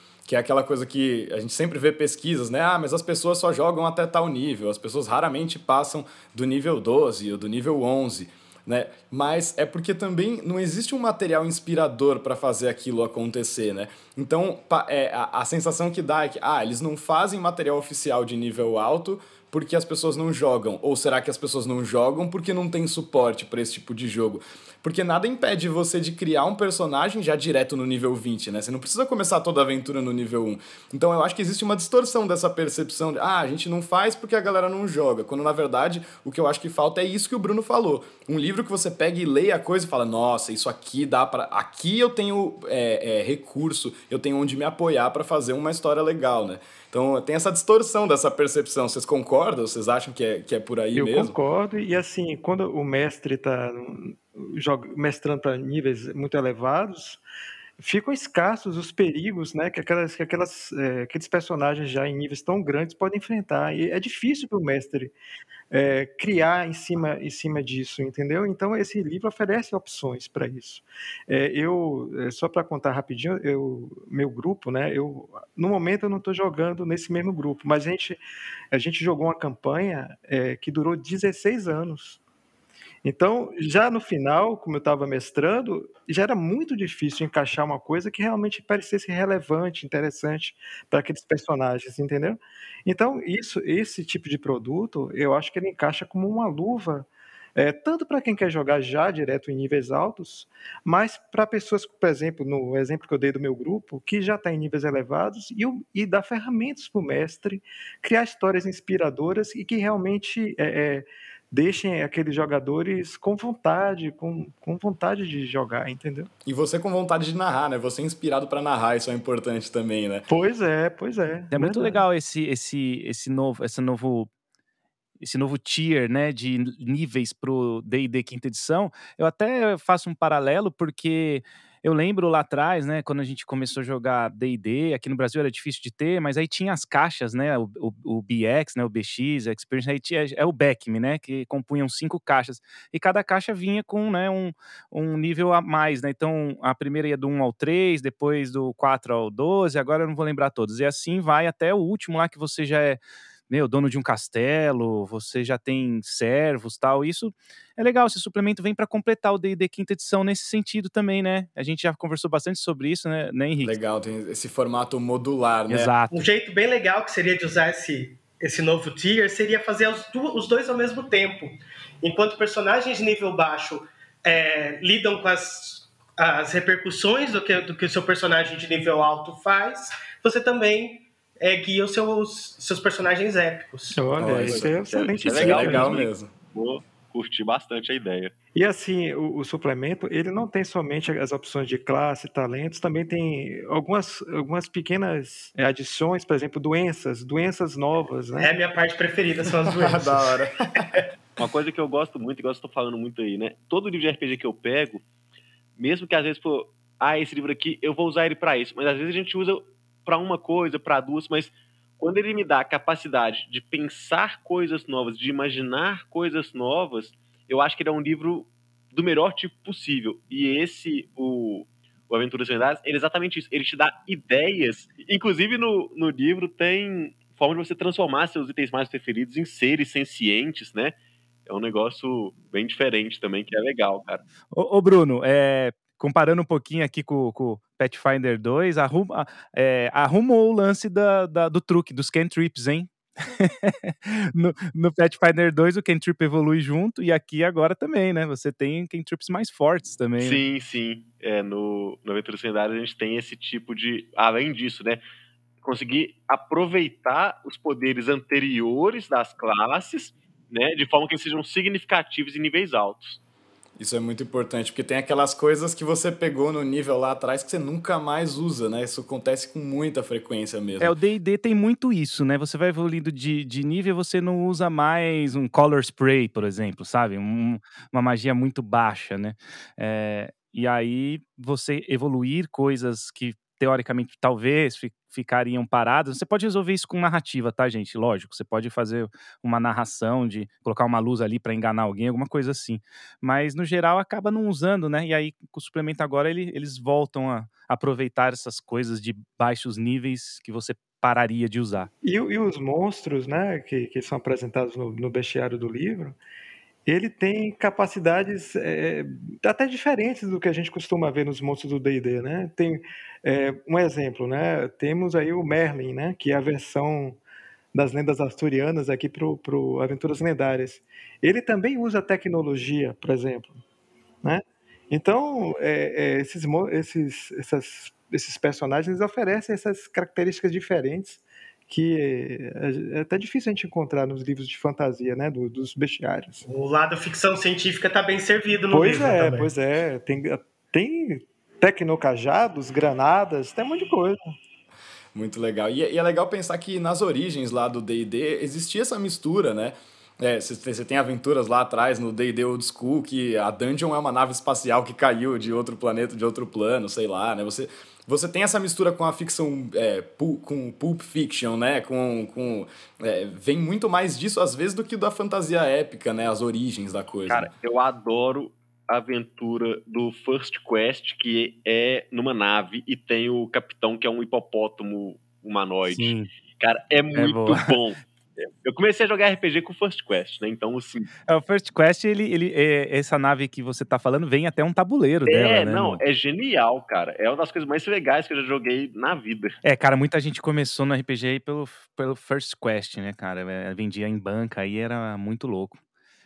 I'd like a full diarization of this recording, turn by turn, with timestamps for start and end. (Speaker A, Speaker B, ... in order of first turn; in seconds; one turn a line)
Speaker A: 0.2-51.4
Speaker B: 50.9-57.2
Speaker B: 57.8-65.1
Speaker B: 65.7-78.2
Speaker B: 78.7-82.2
Speaker B: 83.0-116.3
Speaker A: 116.4-120.2
Speaker B: 120.3-122.0
Speaker C: 121.5-124.3
Speaker C: 125.2-163.8
Speaker A: 163.6-165.9
Speaker C: 165.7-166.3
Speaker D: 166.1-184.0
Speaker B: 183.9-186.0
Speaker A: 184.2-186.3
Speaker E: 184.4-188.3
Speaker B: 188.5-198.5
Speaker D: 198.4-200.4
Speaker A: 199.7-200.9
Speaker E: 201.4-205.0
Speaker E: 205.8-230.9
Speaker E: 231.4-234.2
Speaker C: 234.5-250.4
Speaker E: 250.2-255.0
Speaker E: 255.6-263.2
Speaker A: 263.8-270.9
Speaker C: 270.8-301.9
Speaker B: 302.0-306.2
Speaker B: 306.9-317.2
Speaker B: 317.7-323.6
Speaker B: 324.2-336.4
Speaker D: 336.4-339.5
Speaker B: 338.7-344.2
Speaker A: 345.1-367.5
Speaker E: 367.3-381.1
Speaker C: 375.9-376.3
Speaker C: 377.1-377.8
Speaker C: 381.3-386.0
Speaker E: 385.2-389.6
Speaker C: 389.6-395.8